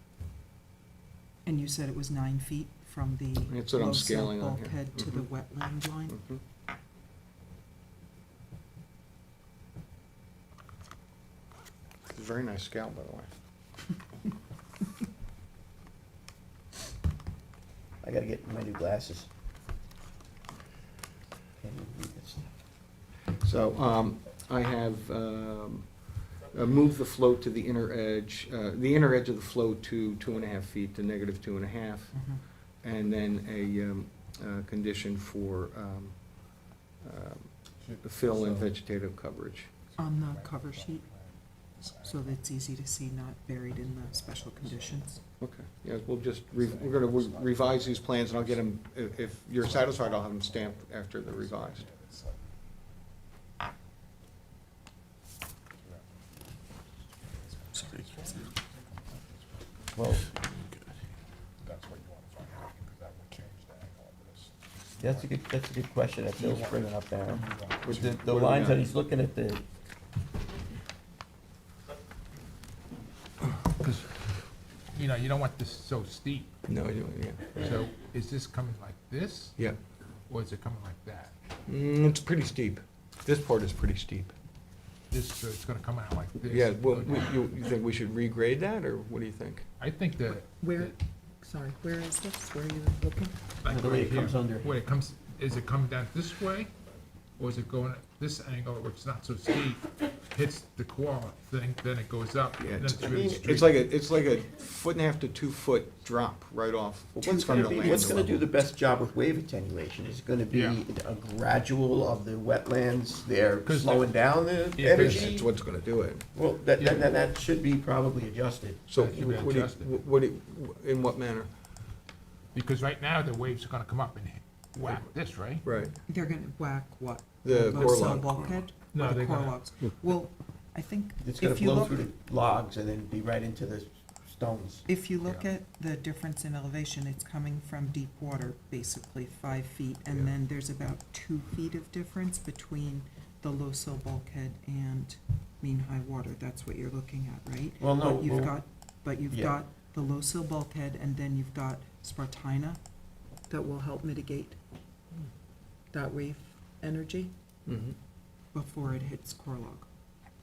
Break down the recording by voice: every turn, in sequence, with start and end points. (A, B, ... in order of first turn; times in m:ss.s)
0:01.4-0:06.2 A
0:03.5-0:05.3 B
0:06.1-0:06.4 B
0:12.1-0:13.4 B
0:18.0-0:19.3 C
0:21.6-0:22.5 C
0:23.4-0:32.3 B
0:32.1-0:32.4 A
0:32.8-0:37.5 B
0:37.8-0:38.7 D
0:38.0-0:39.7 B
0:40.0-0:41.0 A
0:40.0-0:42.4 D
0:42.0-0:45.2 A
0:44.3-0:45.0 D
0:45.4-0:51.8 B
0:46.6-0:48.6 D
0:49.7-0:50.7 D
0:51.5-0:52.4 D
0:55.8-0:56.4 D
0:57.7-0:58.0 A
0:57.8-0:58.5 D
0:59.2-0:59.6 D
0:59.9-1:00.3 C
1:01.6-1:05.2 D
1:05.0-1:09.6 C
1:06.4-1:08.1 D
1:07.8-1:08.8 B
1:13.6-1:14.2 D
1:14.9-1:16.5 D
1:16.7-1:17.6 B
1:17.5-1:19.6 D
1:20.3-1:21.3 D
1:21.7-1:24.3 B
1:25.1-1:27.3 D
1:26.5-1:29.7 B
1:29.8-1:30.9 D
1:30.6-1:33.4 A
1:33.6-1:36.7 D
1:33.6-1:34.7 C
1:37.4-1:43.7 D
1:42.6-1:48.4 B
1:43.0-1:43.6 C
1:47.1-1:55.5 C
1:47.6-1:47.8 A
1:50.5-1:50.8 D
1:53.6-1:54.1 D
1:54.8-1:55.4 D
1:54.9-1:56.2 B
1:56.3-1:58.8 C
1:56.8-1:57.0 D
1:58.9-2:01.5 B
1:58.9-2:00.0 D
2:02.5-2:05.6 D
2:05.6-2:05.9 B
2:06.0-2:12.1 A
2:07.4-2:08.3 B
2:08.9-2:09.8 D
2:11.2-2:14.8 C
2:14.8-2:32.8 A
2:27.8-2:28.6 C
2:29.3-2:29.6 C
2:33.5-2:34.6 A
2:35.9-2:37.3 A
2:37.7-2:38.0 B
2:38.5-2:39.9 A